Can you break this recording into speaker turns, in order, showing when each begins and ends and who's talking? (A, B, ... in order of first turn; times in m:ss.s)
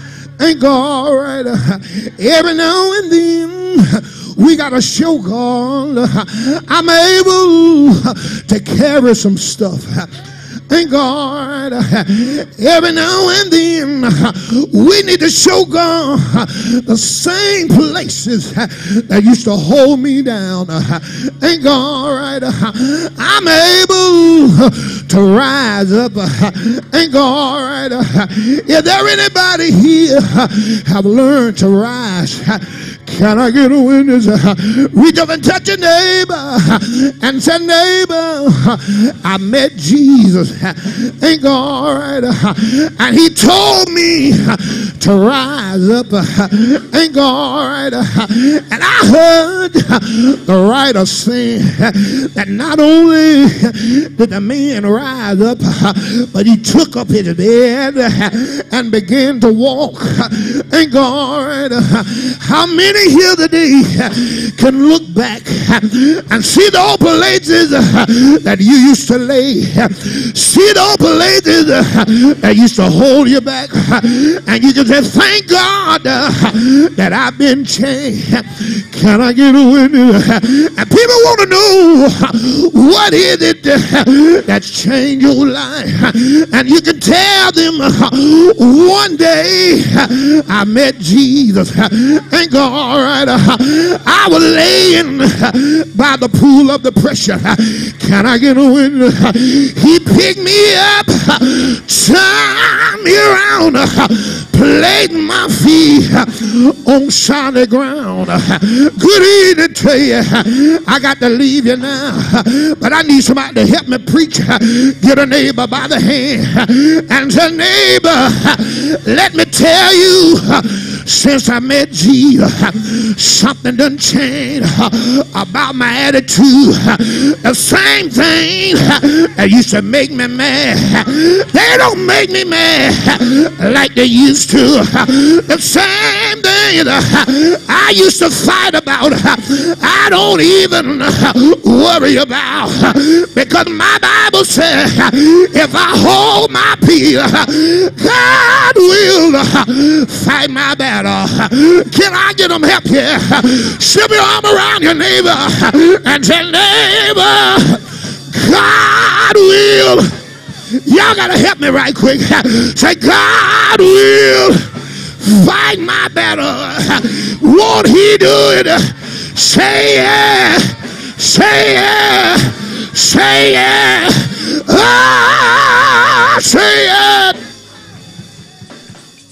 0:00.4-2:40.1 A
2:40.7-2:57.4 A